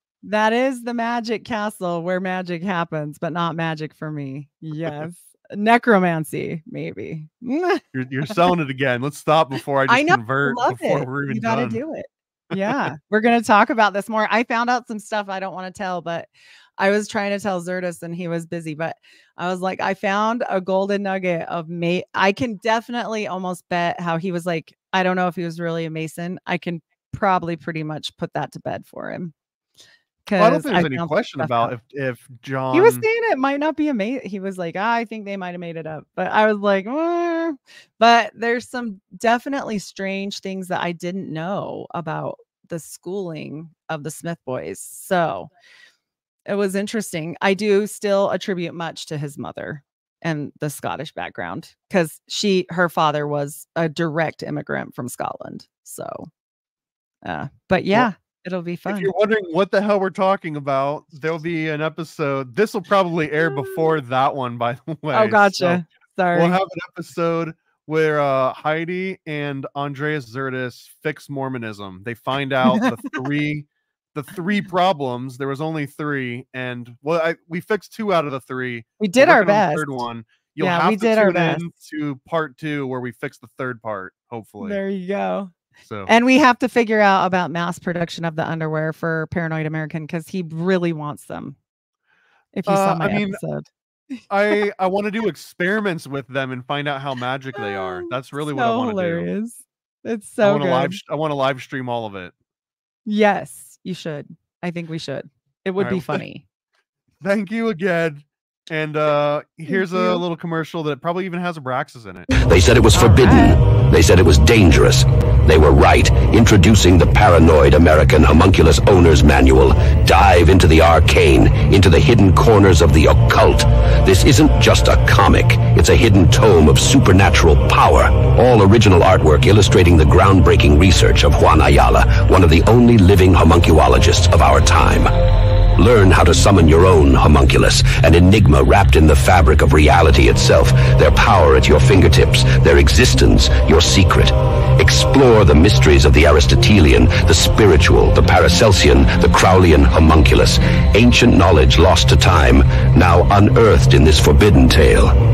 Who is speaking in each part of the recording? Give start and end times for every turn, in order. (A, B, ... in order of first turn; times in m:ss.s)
0:00.2-0:08.5 A
0:07.9-0:11.8 B
0:09.9-0:29.3 A
0:12.5-0:12.9 B
0:30.2-0:31.7 A
0:30.4-0:33.0 B
0:32.7-0:45.5 A
0:46.5-0:56.3 A
0:57.2-0:59.1 A
0:58.9-1:24.8 B
1:03.4-1:03.9 A
1:05.1-1:06.6 A
1:12.6-1:13.2 A
1:19.0-1:20.0 A
1:20.6-1:21.6 A
1:24.6-1:25.5 A
1:25.8-1:26.1 B
1:26.1-1:31.6 A
1:32.5-1:34.6 A
1:32.7-1:33.4 B
1:34.3-1:39.3 B
1:37.6-1:41.0 A
1:40.4-1:42.3 B
1:43.0-1:46.4 A
1:45.8-1:46.2 B
1:47.2-1:52.3 B
1:49.7-1:50.2 A
1:52.4-2:35.1 C
1:52.9-1:53.6 A